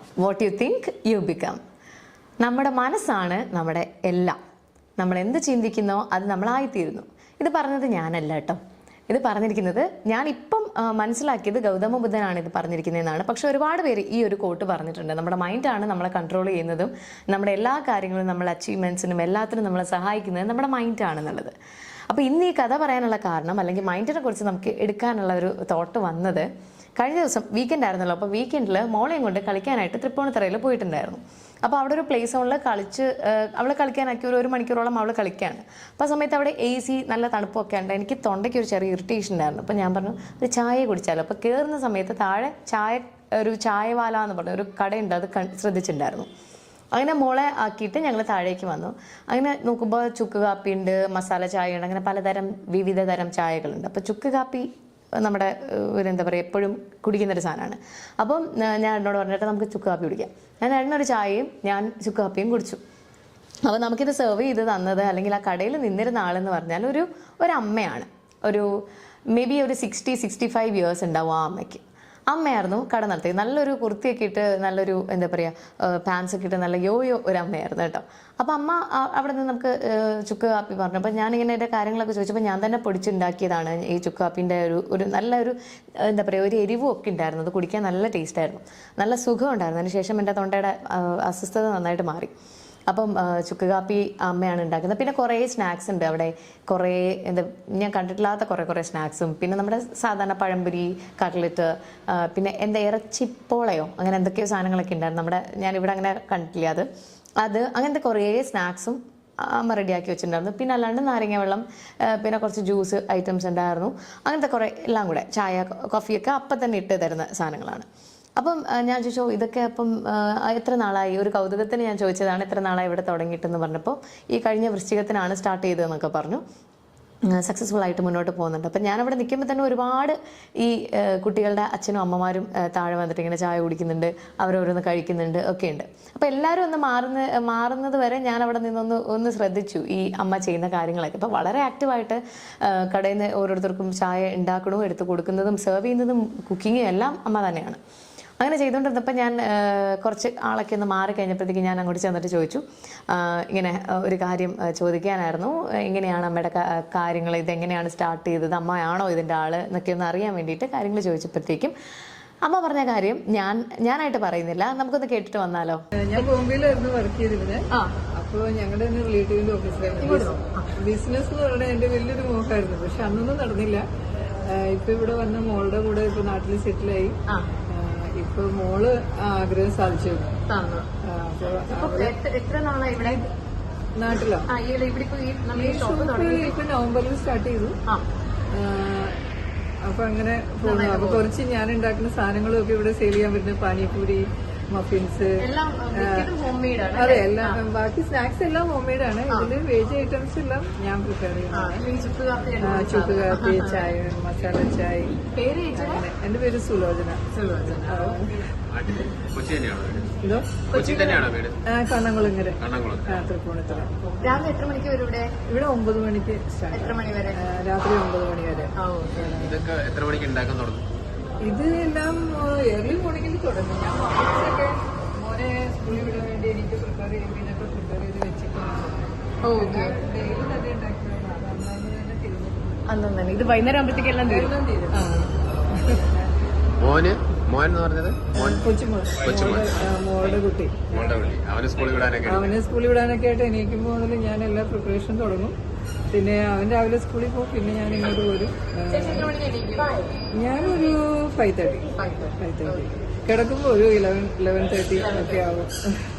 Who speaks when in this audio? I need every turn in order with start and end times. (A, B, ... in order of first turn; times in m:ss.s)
0:00.2-0:01.6 A
0:02.4-0:04.4 A
0:05.0-0:21.5 A
0:22.1-0:46.3 A
0:46.9-1:02.8 A
1:03.6-1:32.3 A
1:32.9-1:46.9 A
1:47.4-1:57.9 A
1:58.4-2:06.4 A
2:07.3-2:27.8 A
2:28.4-2:41.7 A
2:42.4-2:46.2 A
2:46.0-2:53.8 B
2:49.9-2:50.7 A
2:54.4-2:57.2 B
2:57.7-3:00.3 B
3:00.5-3:00.9 A
3:01.0-3:02.2 B
3:01.7-3:03.2 A
3:02.9-3:03.2 B
3:04.0-3:04.5 B
3:04.5-3:06.5 A
3:05.5-3:07.8 B
3:08.5-3:09.2 B
3:09.8-3:16.3 B
3:10.6-3:11.2 A
3:15.4-3:17.6 A
3:16.9-3:21.9 B
3:21.5-3:23.8 A
3:22.6-3:28.4 B
3:25.3-3:26.0 A
3:27.3-3:28.2 A
3:28.7-3:31.6 C
3:30.2-3:34.5 B
3:30.7-3:31.1 A
3:32.6-3:33.3 C
3:34.2-3:35.3 A
3:35.5-3:39.4 B
3:36.7-3:37.4 A
3:38.8-3:39.4 A
3:39.4-3:40.8 C
3:41.4-3:52.8 B
3:49.4-3:50.0 A
3:52.9-3:55.3 A
3:54.2-3:55.1 B
3:55.7-3:56.1 B
3:56.8-3:58.6 C
3:58.3-4:01.0 B
3:59.2-4:02.6 C
4:02.2-4:05.5 B
4:06.1-4:09.4 B
4:09.1-4:10.1 A
4:10.3-4:16.0 B